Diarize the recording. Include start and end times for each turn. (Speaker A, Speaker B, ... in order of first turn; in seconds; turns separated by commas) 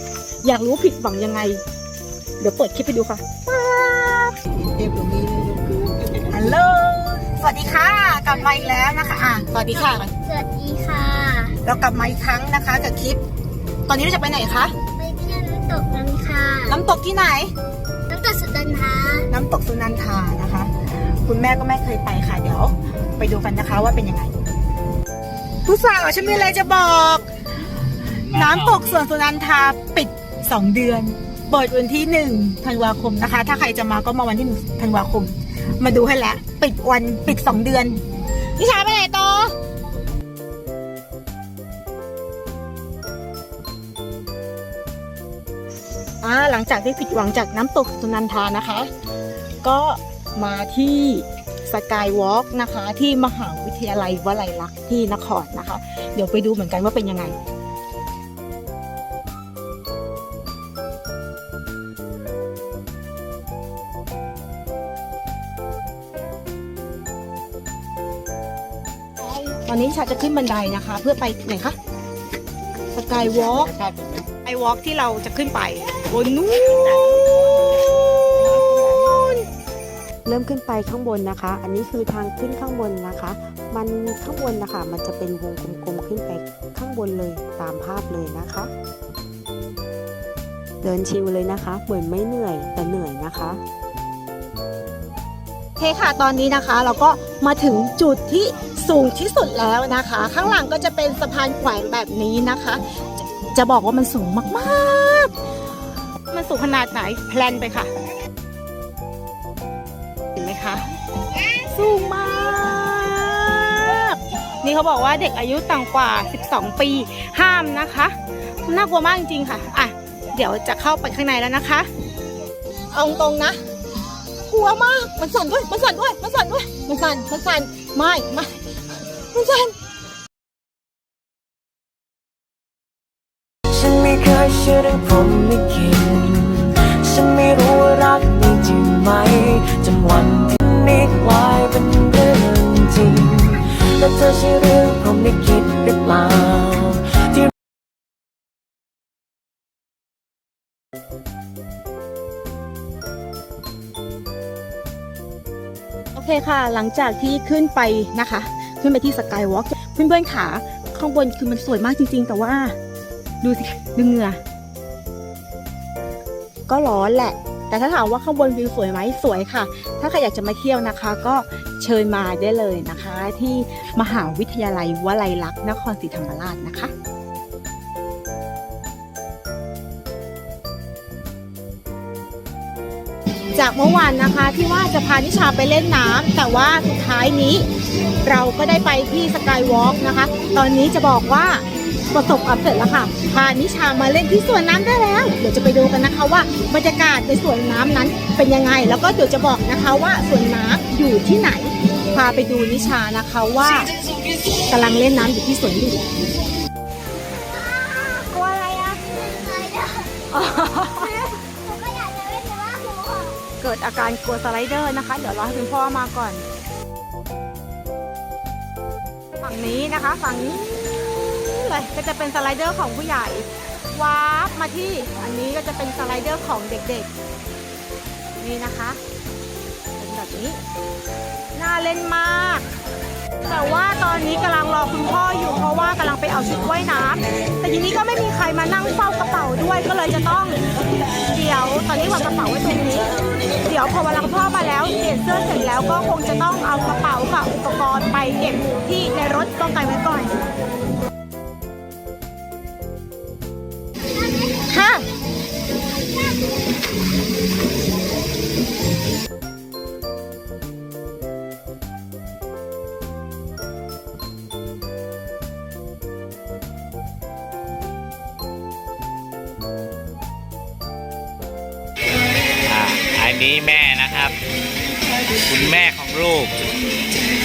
Speaker A: 0.4-1.6, Speaker A: 2.4-10.1, Speaker B: 8.2-8.7, Speaker B: 9.7-11.6, Speaker A: 11.6-13.2, Speaker A: 13.9-14.7, Speaker B: 15.0-16.8, Speaker A: 16.7-17.5, Speaker B: 18.1-19.3, Speaker A: 19.3-24.4, Speaker A: 25.6-27.3, Speaker A: 28.3-38.0, Speaker A: 38.6-39.5, Speaker A: 46.2-48.9, Speaker A: 49.6-57.4, Speaker A: 69.5-71.8, Speaker A: 72.9-73.8, Speaker A: 74.4-79.5, Speaker C: 80.2-88.7, Speaker C: 90.8-93.6, Speaker A: 95.8-102.8, Speaker A: 103.5-105.3, Speaker A: 106.3-107.9, Speaker A: 110.4-110.8, Speaker A: 111.5-118.1, Speaker A: 118.7-121.9, Speaker A: 122.9-123.6, Speaker A: 124.5-128.5, Speaker A: 129.3-129.8, Speaker D: 133.7-147.5, Speaker A: 156.2-162.8, Speaker A: 163.4-164.4, Speaker A: 166.7-176.9, Speaker A: 183.6-187.7, Speaker A: 188.2-203.9, Speaker A: 204.7-206.2, Speaker B: 207.1-213.4, Speaker A: 208.2-209.0, Speaker A: 210.3-211.1, Speaker A: 213.6-216.4, Speaker A: 219.4-227.1, Speaker A: 228.4-229.0, Speaker A: 230.0-230.6, Speaker A: 231.6-232.7, Speaker A: 233.4-240.6, Speaker A: 241.3-250.4, Speaker A: 254.6-255.1, Speaker E: 272.7-274.4, Speaker E: 275.5-276.5